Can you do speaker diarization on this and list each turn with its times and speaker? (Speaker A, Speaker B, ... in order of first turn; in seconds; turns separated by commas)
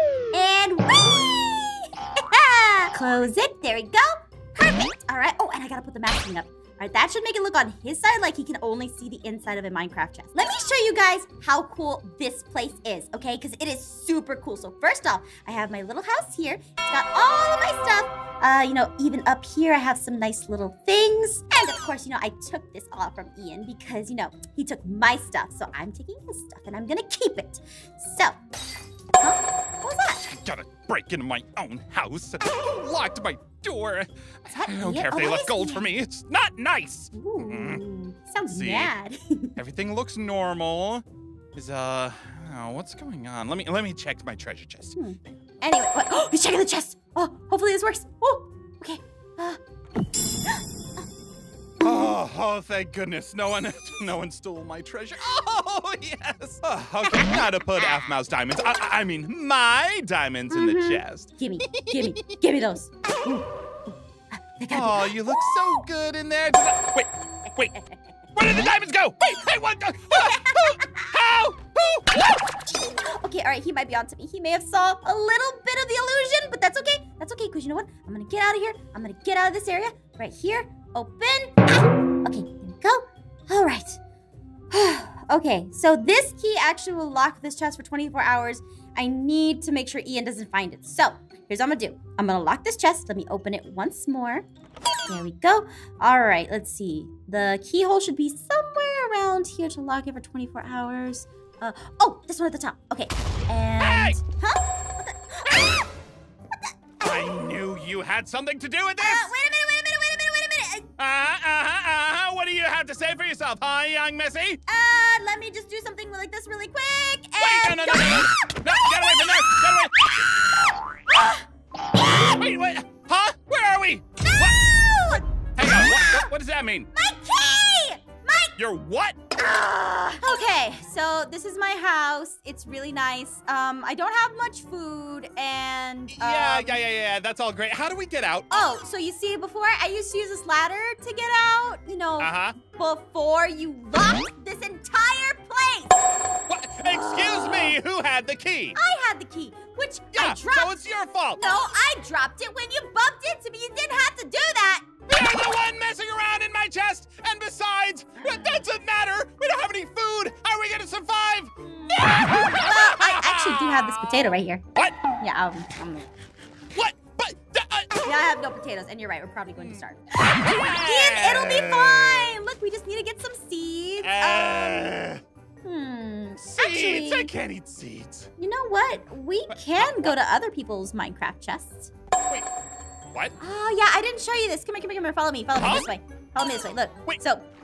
Speaker A: 0.3-28.4, Speaker A: 29.2-30.3, Speaker B: 30.3-37.8, Speaker A: 34.5-35.9, Speaker A: 37.1-39.5, Speaker B: 38.5-38.9, Speaker B: 39.6-45.0, Speaker A: 44.9-49.6, Speaker B: 51.8-62.2, Speaker A: 57.0-57.3, Speaker A: 60.5-63.4, Speaker A: 64.3-65.6, Speaker B: 64.7-67.7, Speaker A: 67.5-68.2, Speaker B: 68.3-72.3, Speaker A: 70.1-71.1, Speaker A: 73.0-84.0, Speaker A: 84.7-94.5, Speaker A: 95.1-105.9, Speaker B: 103.8-104.2, Speaker B: 107.0-109.3, Speaker A: 109.0-110.9, Speaker B: 111.0-114.6, Speaker A: 114.7-119.7, Speaker B: 117.4-120.5, Speaker A: 121.1-121.4, Speaker B: 122.2-124.6, Speaker A: 124.2-126.3, Speaker B: 125.5-126.9, Speaker A: 126.9-128.5, Speaker B: 128.6-129.2, Speaker A: 129.3-136.8, Speaker B: 136.1-138.5, Speaker A: 138.5-146.1, Speaker B: 142.2-142.6, Speaker B: 146.5-148.8, Speaker A: 146.8-147.8, Speaker A: 148.8-154.9, Speaker B: 150.1-151.4, Speaker B: 155.1-161.5, Speaker A: 161.6-164.6, Speaker B: 162.1-163.9, Speaker A: 165.2-166.1, Speaker B: 166.7-168.0, Speaker A: 168.0-174.9, Speaker B: 169.6-169.8, Speaker B: 170.3-172.3, Speaker B: 174.0-175.2, Speaker A: 175.6-177.3, Speaker B: 176.4-178.3, Speaker A: 178.4-181.9, Speaker B: 179.5-180.1, Speaker A: 183.4-187.4, Speaker B: 185.6-185.9